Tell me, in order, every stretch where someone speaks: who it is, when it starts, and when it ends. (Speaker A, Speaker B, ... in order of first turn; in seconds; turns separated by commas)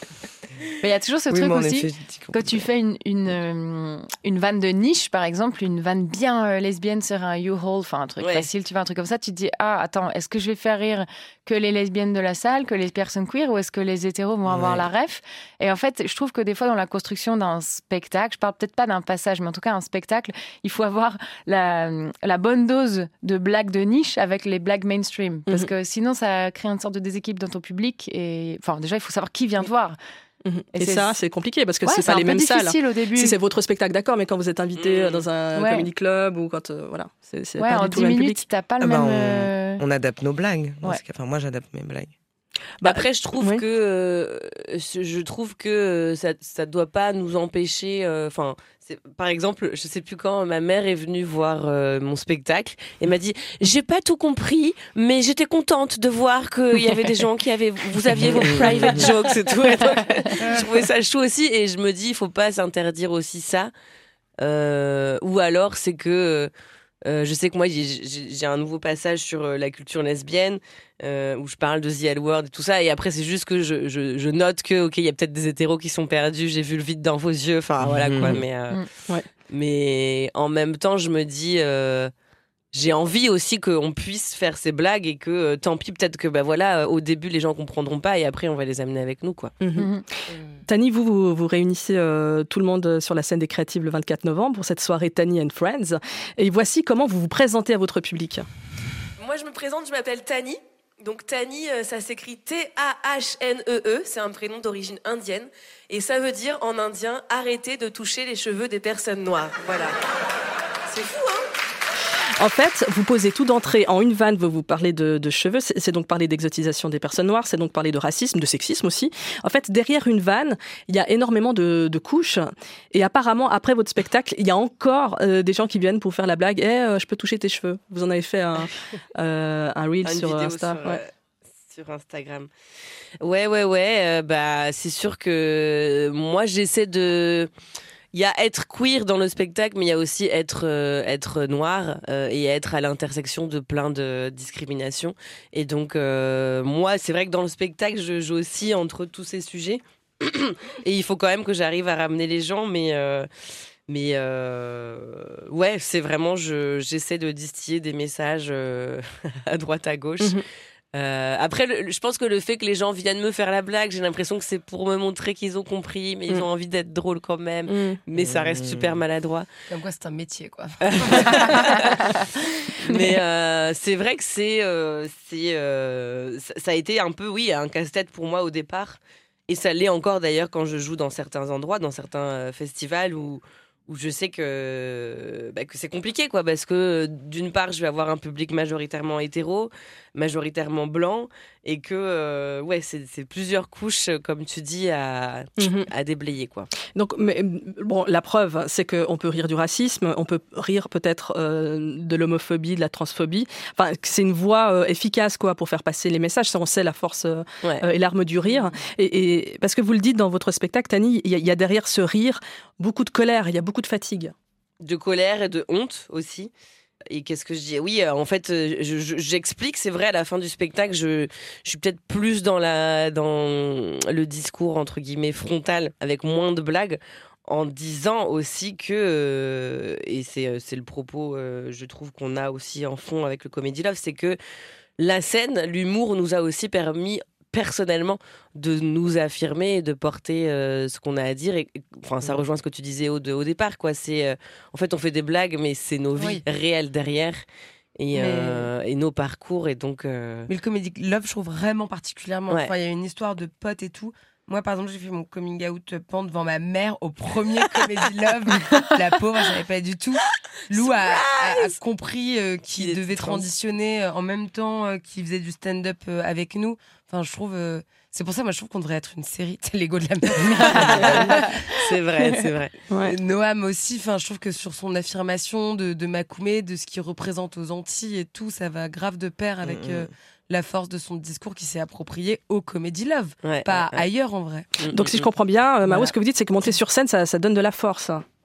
Speaker A: 0.8-30.0, Speaker B: 1.3-2.6, Speaker C: 8.2-8.5, Speaker B: 14.4-14.8, Speaker D: 30.4-38.4, Speaker A: 30.7-31.2, Speaker A: 31.8-33.4, Speaker C: 34.8-35.3, Speaker A: 35.5-35.9, Speaker A: 37.6-39.8, Speaker B: 38.8-42.1, Speaker D: 42.8-43.6, Speaker C: 42.8-63.7, Speaker B: 58.4-59.1, Speaker A: 58.6-59.0, Speaker A: 59.9-60.3, Speaker C: 64.4-66.5, Speaker C: 67.0-78.8, Speaker B: 77.8-78.4, Speaker C: 79.5-82.1, Speaker C: 82.7-89.5, Speaker D: 89.6-89.9, Speaker A: 89.8-90.0, Speaker D: 90.7-98.5, Speaker C: 99.2-110.0, Speaker C: 110.9-111.4, Speaker D: 112.4-131.0, Speaker C: 130.0-131.1, Speaker C: 131.7-132.5, Speaker C: 133.2-137.5, Speaker C: 138.1-153.3, Speaker C: 153.9-160.4, Speaker C: 160.9-169.5, Speaker D: 167.7-168.0, Speaker B: 168.2-169.0, Speaker E: 169.7-172.0, Speaker C: 170.8-172.1, Speaker C: 172.7-196.7, Speaker D: 195.6-195.9, Speaker D: 196.8-214.3, Speaker C: 214.8-216.5, Speaker C: 217.1-234.4, Speaker C: 235.0-247.4, Speaker E: 246.2-246.4, Speaker C: 248.0-250.5, Speaker E: 248.1-248.7, Speaker E: 250.5-271.6, Speaker C: 260.7-261.8, Speaker C: 262.8-263.5, Speaker C: 270.6-272.7, Speaker B: 270.8-271.2, Speaker A: 271.5-272.2, Speaker D: 272.9-273.1, Speaker E: 273.0-284.8, Speaker B: 279.6-280.1, Speaker C: 283.4-284.1, Speaker C: 284.8-285.3, Speaker D: 284.9-288.2, Speaker E: 285.8-286.1